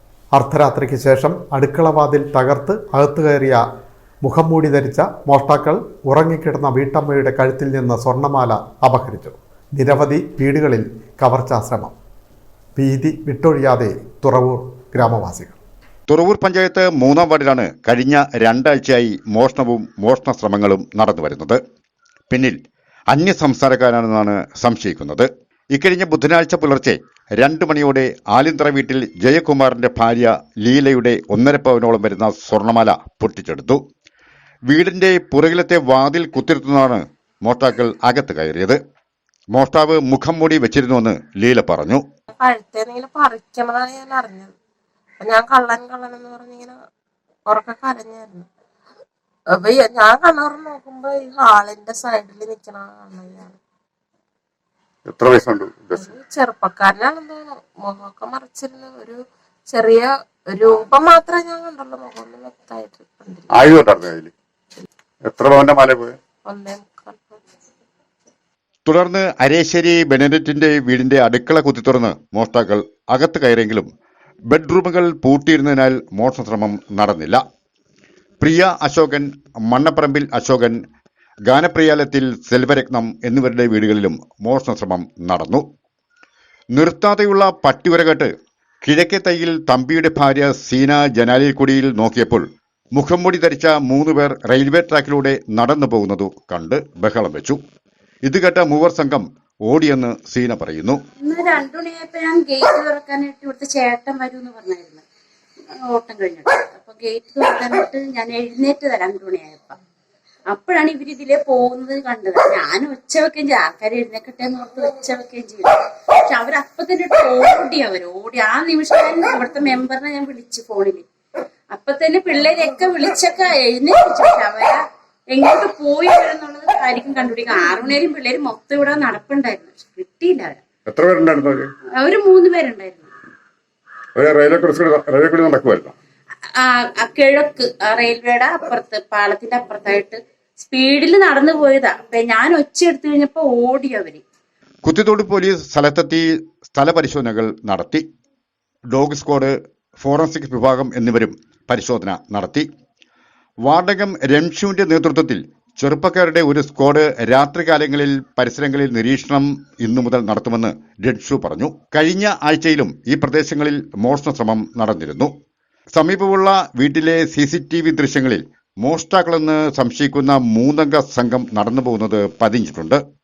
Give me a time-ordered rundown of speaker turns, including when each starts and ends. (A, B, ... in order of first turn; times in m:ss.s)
0:00.3-0:03.6 A
0:04.2-0:11.9 A
0:12.8-0:15.6 A
0:16.1-0:21.6 B
0:22.3-0:22.6 B
0:23.1-0:33.8 B
0:34.7-0:38.8 B
0:39.5-0:42.0 B
0:42.3-0:44.5 C
0:45.2-0:46.8 C
0:47.5-0:48.5 C
0:49.5-0:53.6 C
0:55.1-0:56.1 D
0:56.0-1:03.8 C
1:03.5-1:04.3 D
1:05.2-1:06.2 D
1:06.4-1:07.4 C
1:08.8-1:13.9 B
1:14.5-1:17.4 B
1:18.4-1:20.8 B
1:21.5-1:25.7 B
1:26.7-1:28.3 B
1:28.8-1:37.6 B
1:38.2-1:41.0 B
1:41.2-1:45.0 E
1:45.8-1:49.8 E
1:50.5-2:01.1 E
2:01.7-2:04.8 E
2:05.3-2:10.6 E
2:10.9-2:11.7 D
2:12.0-2:13.1 E
2:14.2-2:16.0 D
2:16.6-2:24.2 E
2:24.8-2:28.0 B
2:28.9-2:32.7 B
2:33.7-2:45.3 B
2:46.0-2:53.0 B